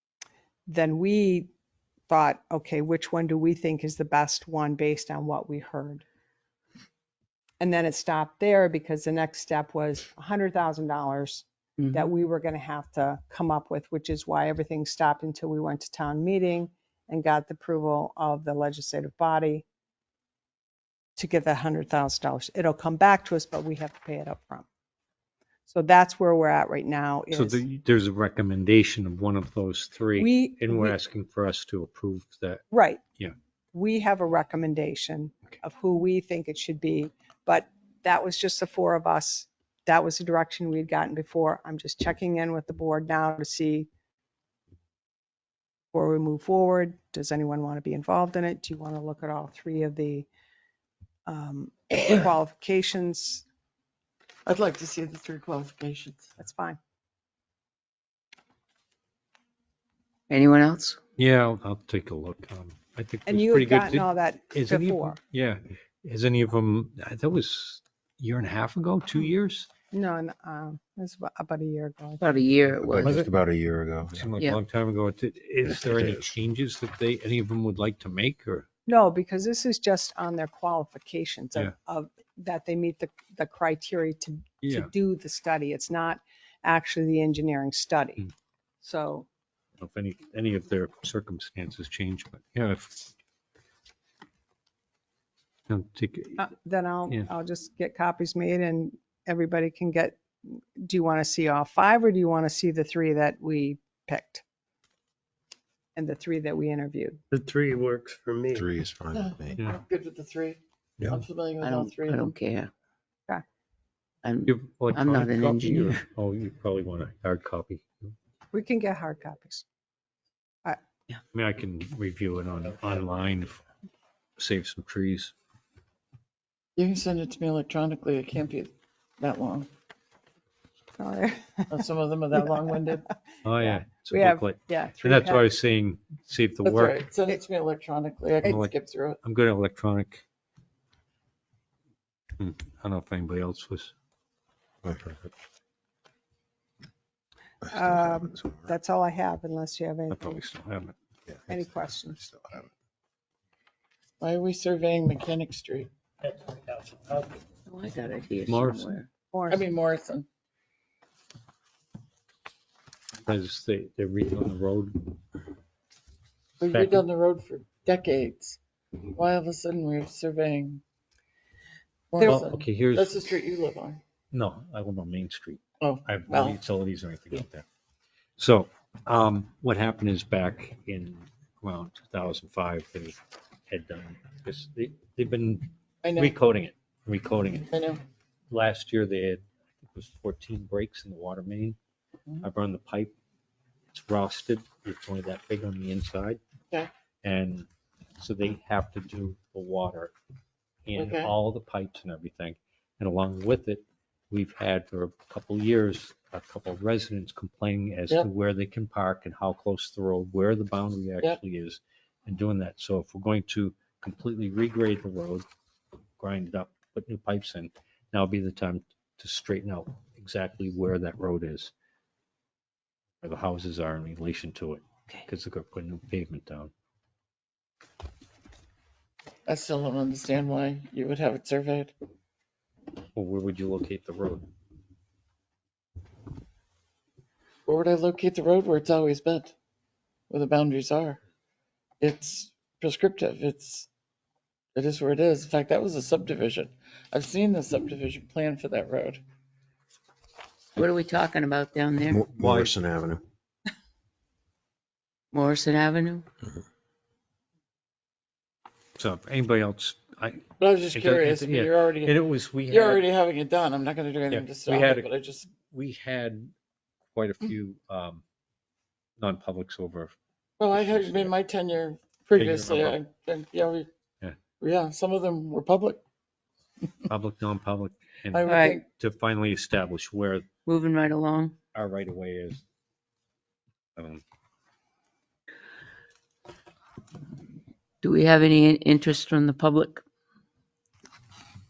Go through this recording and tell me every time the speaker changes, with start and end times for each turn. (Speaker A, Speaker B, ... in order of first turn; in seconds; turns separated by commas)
Speaker A: 0.7-1.5, Speaker A: 2.1-6.1, Speaker A: 7.6-19.7, Speaker B: 11.8-12.1, Speaker A: 21.2-24.7, Speaker A: 25.7-27.6, Speaker C: 27.3-32.7, Speaker A: 30.2-31.0, Speaker A: 32.7-33.0, Speaker A: 33.7-43.9, Speaker A: 45.9-50.3, Speaker A: 51.3-53.4, Speaker D: 54.5-56.3, Speaker A: 56.4-56.8, Speaker B: 60.3-61.0, Speaker C: 61.2-69.7, Speaker A: 63.3-65.2, Speaker A: 69.9-72.3, Speaker B: 72.2-73.1, Speaker E: 72.8-74.3, Speaker C: 73.0-73.3, Speaker C: 74.1-78.7, Speaker E: 75.8-76.2, Speaker A: 78.9-88.3, Speaker C: 84.6-84.9, Speaker A: 88.8-89.3, Speaker C: 89.8-93.1, Speaker C: 95.7-96.5, Speaker A: 96.4-104.4, Speaker A: 106.0-107.2, Speaker F: 107.3-108.7, Speaker E: 108.5-109.6, Speaker D: 109.1-112.3, Speaker B: 111.6-112.7, Speaker B: 114.2-116.0, Speaker C: 114.5-118.1, Speaker A: 118.5-119.7, Speaker C: 121.3-123.6, Speaker C: 124.4-125.3, Speaker D: 126.8-129.7, Speaker A: 131.0-131.8, Speaker D: 131.7-133.1, Speaker C: 133.4-137.0, Speaker A: 133.6-135.5, Speaker D: 136.6-139.2, Speaker C: 138.4-140.2, Speaker C: 142.4-143.9, Speaker E: 144.8-145.3, Speaker E: 147.6-148.7, Speaker A: 147.6-150.4, Speaker C: 150.1-150.9, Speaker E: 151.3-152.7, Speaker A: 151.5-152.2, Speaker D: 154.2-155.9, Speaker F: 156.2-157.4, Speaker B: 157.7-159.1, Speaker C: 158.5-159.0, Speaker A: 159.3-159.6, Speaker D: 159.5-160.3, Speaker C: 163.2-165.3, Speaker D: 166.6-168.6, Speaker C: 166.7-167.1, Speaker D: 169.1-170.8, Speaker D: 172.1-174.0, Speaker C: 172.2-173.3, Speaker C: 174.3-177.7, Speaker D: 175.8-176.6, Speaker C: 178.4-183.2, Speaker C: 183.7-187.7, Speaker D: 186.0-186.4, Speaker D: 187.7-188.0, Speaker C: 188.5-191.8, Speaker C: 192.4-193.1, Speaker C: 193.9-196.4, Speaker C: 197.2-200.1, Speaker C: 200.9-215.5, Speaker D: 200.9-201.4, Speaker C: 216.2-221.7, Speaker C: 223.2-226.7, Speaker D: 229.5-231.9, Speaker C: 233.2-234.4, Speaker D: 237.7-239.6, Speaker D: 240.3-241.2, Speaker D: 242.0-243.9, Speaker D: 244.8-249.2, Speaker B: 250.8-252.3, Speaker E: 252.1-253.2, Speaker C: 252.4-252.7, Speaker B: 255.3-256.3, Speaker C: 259.0-263.1, Speaker D: 260.6-265.5, Speaker C: 264.3-266.5, Speaker C: 267.1-268.2, Speaker C: 269.2-270.1, Speaker D: 270.6-273.9, Speaker C: 270.7-271.3, Speaker C: 272.4-273.0, Speaker C: 274.2-274.5, Speaker D: 274.6-276.0, Speaker C: 277.1-280.5, Speaker D: 278.3-278.9, Speaker B: 278.5-278.8, Speaker B: 280.7-281.6, Speaker C: 281.7-282.6, Speaker C: 284.0-284.2, Speaker B: 288.0-290.0